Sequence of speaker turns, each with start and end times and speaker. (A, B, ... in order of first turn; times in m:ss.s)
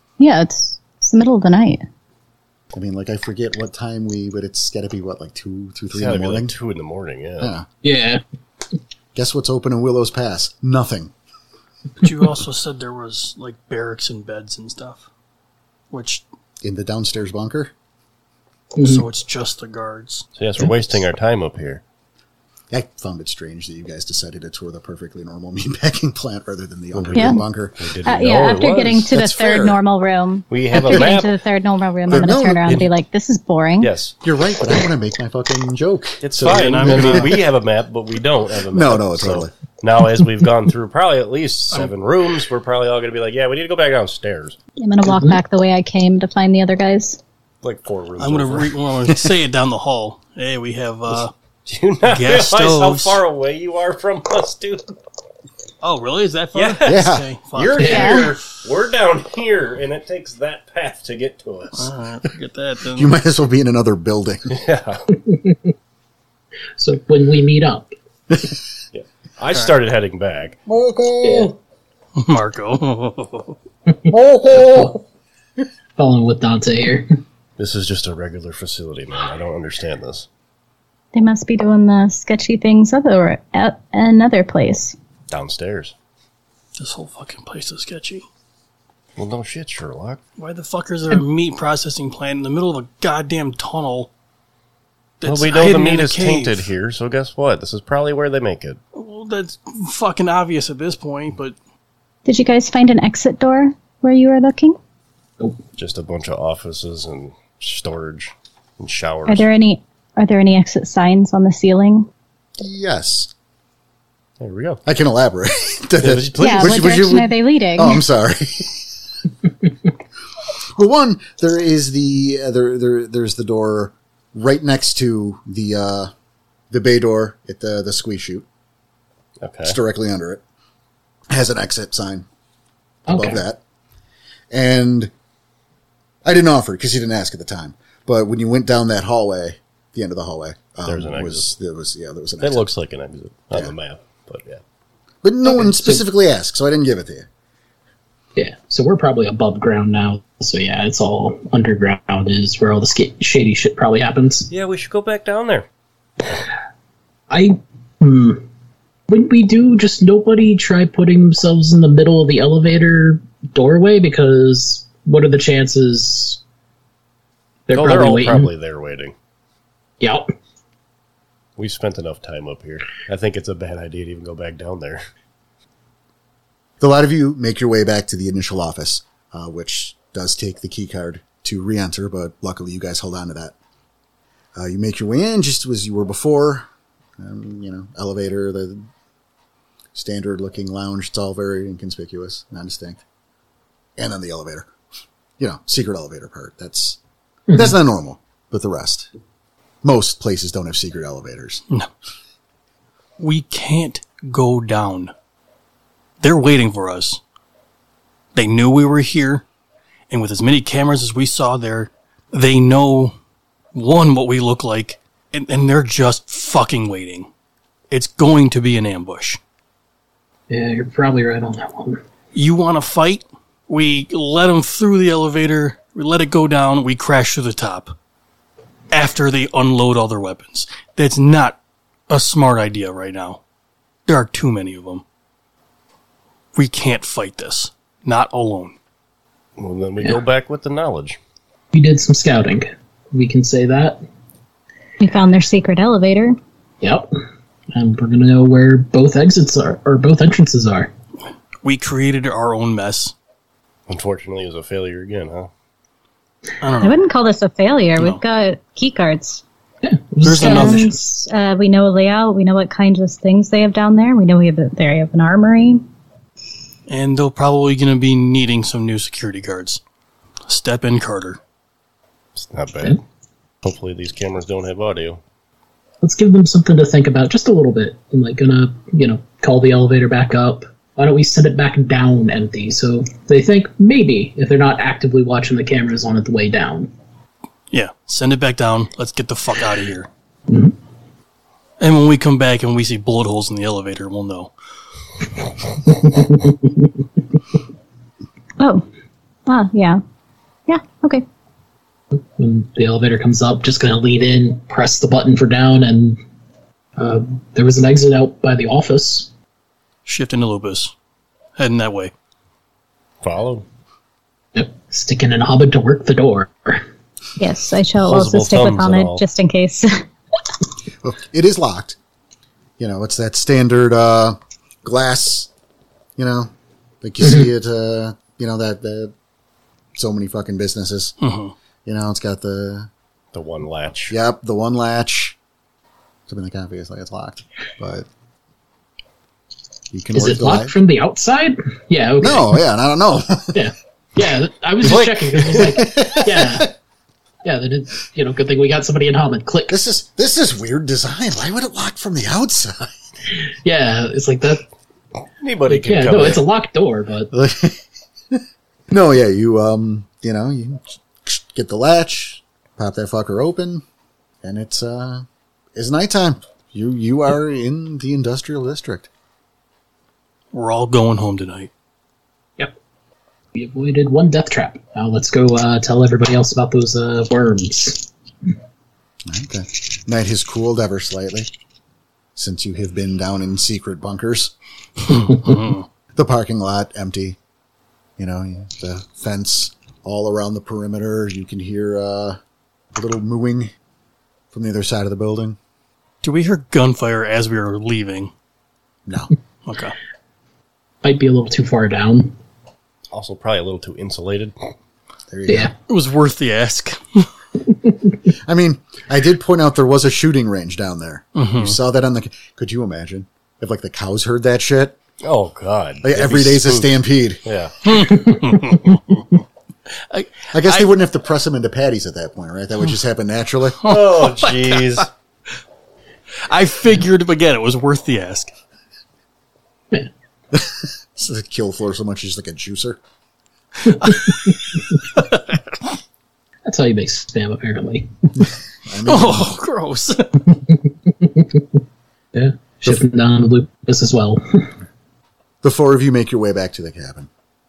0:00.2-0:01.8 A
0:02.7-0:06.5 B
0:05.9-0:07.5 C
0:07.4-0:07.7 B
0:07.8-0:08.2 D
0:09.1-0:11.1 B
0:12.0-0:15.0 E
0:15.9-0:16.2 E
0:16.6-0:17.7 B
0:18.8-0:19.0 D
0:18.8-0:20.2 E
0:20.4-0:21.8 C
0:22.7-0:27.8 B
0:26.9-0:29.7 C
0:27.1-0:27.4 A
0:28.0-0:33.9 A
0:29.1-0:29.8 B
0:30.5-0:31.4 C
0:32.1-0:32.9 B
0:33.8-0:34.2 C
0:34.2-0:37.3 B
0:36.2-0:44.6 C
0:36.4-0:37.3 E
0:38.7-0:39.5 B
0:44.8-0:47.2 A
0:45.0-0:45.4 D
0:47.6-0:49.3 C
0:48.2-0:51.3 E
0:51.6-0:54.8 C
0:52.1-0:53.2 E
0:55.8-0:58.4 E
0:56.5-0:57.0 C
0:56.8-0:57.3 B
0:57.5-1:01.9 C
0:57.8-0:58.1 D
0:57.8-0:58.3 A
1:01.7-1:03.1 E
1:02.9-1:04.5 B
1:04.5-1:05.0 C
1:05.1-1:05.7 D
1:06.8-1:07.9 D
1:08.3-1:08.6 B
1:08.9-1:10.6 C
1:10.6-1:11.5 B
1:11.2-1:11.5 D
1:12.2-1:13.6 E
1:13.9-1:15.0 D
1:14.1-1:15.0 B
1:16.0-1:17.1 D
1:17.6-1:20.3 C
1:21.1-1:25.0 A
1:25.3-1:25.9 C
1:26.8-1:28.2 E
1:29.2-1:30.2 C
1:30.4-1:34.1 E
1:35.2-1:36.7 E
1:35.2-1:38.8 C
1:38.9-1:41.6 E
1:42.2-1:44.8 A
1:45.8-1:49.5 C
1:49.3-1:52.1 A
1:52.6-1:53.3 B
1:54.4-1:54.8 C
1:54.8-1:58.8 B
1:56.0-1:56.8 C
1:56.4-1:58.0 A
2:00.7-2:06.1 B
2:06.7-2:08.4 B
2:09.4-2:09.8 C
2:09.6-2:10.4 B
2:11.3-2:12.2 B
2:13.1-2:13.4 D
2:13.1-2:13.6 B
2:14.5-2:15.1 B
2:16.2-2:22.6 B
2:20.8-2:21.5 C
2:22.4-2:24.6 C
2:25.2-2:27.3 B
2:25.5-2:26.0 D
2:28.4-2:34.5 D
2:34.5-2:35.7 C
2:37.3-2:38.4 D
2:39.1-2:46.4 D
2:47.7-2:48.5 D
2:47.7-2:49.1 C
2:50.0-2:50.3 D
2:51.6-2:55.0 C
2:56.8-3:03.5 B
3:04.6-3:06.6 B
3:07.2-3:08.9 B
3:09.9-3:13.0 B
3:14.0-3:14.7 B
3:15.4-3:17.0 B
3:17.5-3:19.1 B
3:19.8-3:21.6 B
3:23.2-3:25.1 E
3:26.2-3:27.2 E
3:28.3-3:29.4 E
3:30.1-3:33.1 E
3:33.7-3:37.3 E
3:37.9-3:39.4 E
3:40.5-3:42.0 D
3:42.3-3:48.0 E
3:48.9-3:51.6 E
3:52.1-3:53.4 E
3:54.1-3:55.0 E
3:56.5-3:58.8 E
3:59.6-4:01.2 C
4:01.7-4:04.0 D
4:05.0-4:06.4 A
4:06.8-4:07.1 D
4:07.7-4:10.9 D
4:11.6-4:13.1 E
4:13.9-4:15.5 C
4:16.6-4:17.0 E
4:16.8-4:19.4 A
4:19.8-4:21.0 D
4:20.2-4:20.9 E
4:20.4-4:25.8 A
4:26.9-4:29.8 E
4:30.4-4:31.4 E
4:32.4-4:33.0 C
4:33.6-4:35.2 C
4:36.0-4:46.9 D
4:47.7-4:50.1 E
4:50.5-4:50.7 D
4:51.8-4:54.5 E
4:55.9-4:56.9 D
4:58.6-4:58.8 A
4:59.4-5:00.0 A
5:00.7-5:01.2 A
5:02.1-5:06.2 D
5:07.0-5:09.3 D
5:10.0-5:10.9 E
5:11.6-5:12.1 E
5:13.2-5:13.6 C
5:14.5-5:16.8 D
5:17.4-5:20.0 A
5:18.0-5:19.2 C
5:21.0-5:22.0 B
5:22.8-5:25.5 B
5:26.2-5:29.1 B
5:27.2-5:27.5 D
5:29.9-5:31.1 B
5:31.2-5:31.5 E
5:31.8-5:32.9 B
5:33.3-5:34.2 C
5:34.1-5:35.4 B
5:36.3-5:38.0 B
5:39.9-5:40.7 B
5:40.1-5:42.5 D
5:42.2-5:43.7 B
5:43.5-5:46.7 D
5:44.8-5:45.8 C
5:44.9-5:46.7 B
5:47.4-5:49.8 D
5:49.7-5:52.9 B
5:53.6-5:54.7 D
5:55.4-5:56.4 C
5:55.7-5:57.3 D
5:57.3-5:57.8 B
5:58.3-6:03.8 B
6:04.4-6:09.1 B
6:10.5-6:11.7 E
6:13.5-6:18.1 D
6:19.3-6:21.5 B
6:22.4-6:24.5 B
6:25.0-6:25.8 E
6:26.1-6:27.4 B
6:28.2-6:32.4 B
6:32.9-6:33.7 B
6:34.5-6:35.6 B
6:36.2-6:38.3 E
6:39.6-6:39.9 E
6:41.0-6:42.3 D
6:43.1-6:44.5 C
6:45.3-6:45.7 B
6:45.5-6:45.7 D
6:45.9-6:47.3 E
6:47.8-6:48.1 D
6:48.4-6:55.0 B
6:51.4-6:51.8 E
6:55.2-6:57.8 C
6:56.0-6:57.4 B
6:57.8-6:59.2 E
7:00.1-7:00.9 E
7:00.5-7:03.8 B
7:03.8-7:05.0 E
7:03.8-7:05.1 C
7:06.5-7:08.5 E
7:10.5-7:13.0 B
7:13.8-7:16.0 E
7:16.6-7:18.4 D
7:18.4-7:19.5 B
7:19.0-7:20.5 E
7:20.6-7:21.6 D
7:22.3-7:24.7 D
7:25.6-7:27.3 B